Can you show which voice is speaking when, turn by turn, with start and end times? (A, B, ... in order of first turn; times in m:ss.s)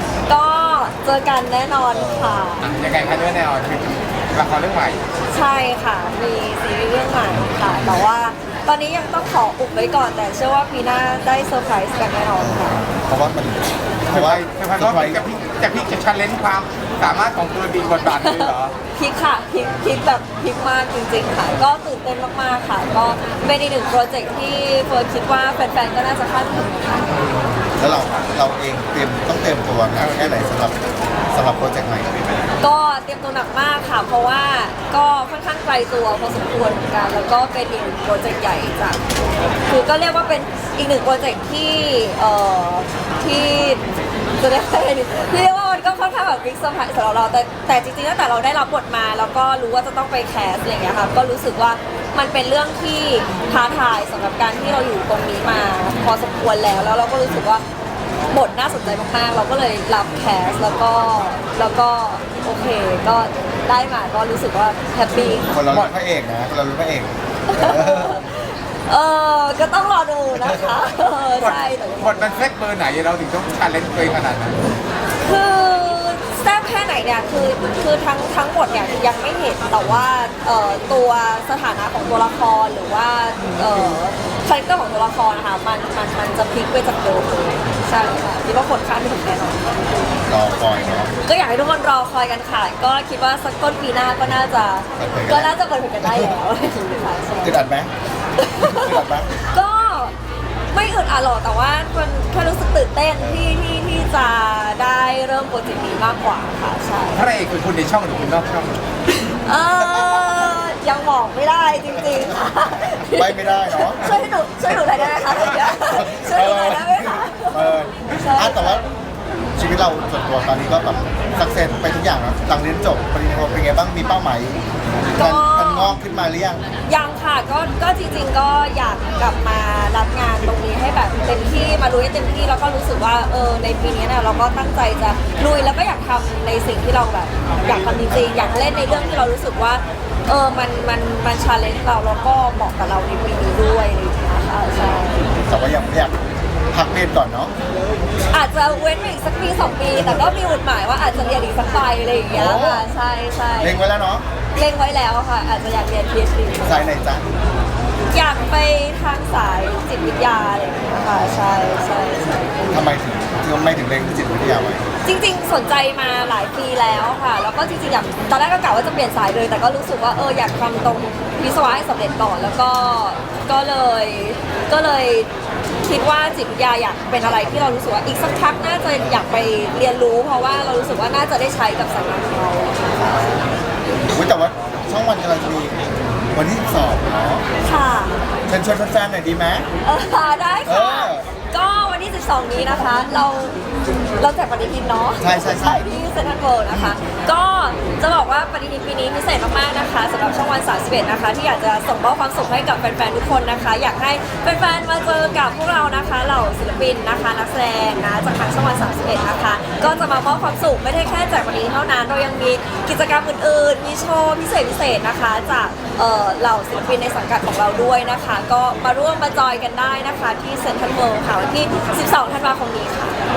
0:00.3-0:02.7 A
0:01.9-0:02.5 B
0:02.6-0:05.0 C
0:05.3-0:12.8 A
0:07.4-0:08.0 B
0:12.4-0:15.2 B
0:14.1-0:18.7 C
0:18.1-0:27.1 A
0:27.8-0:30.8 B
0:31.3-0:32.1 B
0:32.6-0:39.0 A
0:39.7-0:57.6 A
0:58.3-1:05.6 A
1:05.5-1:08.2 B
1:05.7-1:05.9 C
1:07.5-1:12.4 A
1:10.4-1:10.7 B
1:11.4-1:14.6 C
1:15.2-1:29.6 A
1:30.3-1:31.1 B
1:31.2-1:37.6 A
1:35.0-1:36.4 B
1:37.4-1:37.9 B
1:38.4-1:40.1 A
1:38.6-1:39.3 B
1:40.7-1:47.2 A
1:43.2-1:43.6 B
1:47.1-1:48.8 C
1:49.1-1:58.9 A
1:49.8-1:50.2 B
1:53.1-1:58.9 B
1:59.6-2:04.6 B
2:05.1-2:06.0 A
2:05.2-2:06.6 B
2:06.8-2:25.3 A
2:25.5-2:26.2 B
2:26.7-2:27.5 B
2:28.3-2:33.8 A
2:32.3-2:32.9 B
2:33.6-2:34.2 B
2:34.6-2:36.9 A
2:36.6-2:37.2 B
2:38.1-2:42.9 A
2:42.7-2:44.8 B
2:45.0-2:55.3 A
2:55.8-3:03.3 A
2:59.0-2:59.2 B
3:03.0-3:03.5 B
3:04.0-3:07.4 B
3:07.6-3:08.2 A
3:08.5-3:09.7 B
3:09.8-3:13.6 A
3:10.7-3:11.3 B
3:14.2-3:43.2 A
3:15.2-3:15.9 B
3:16.7-3:17.0 B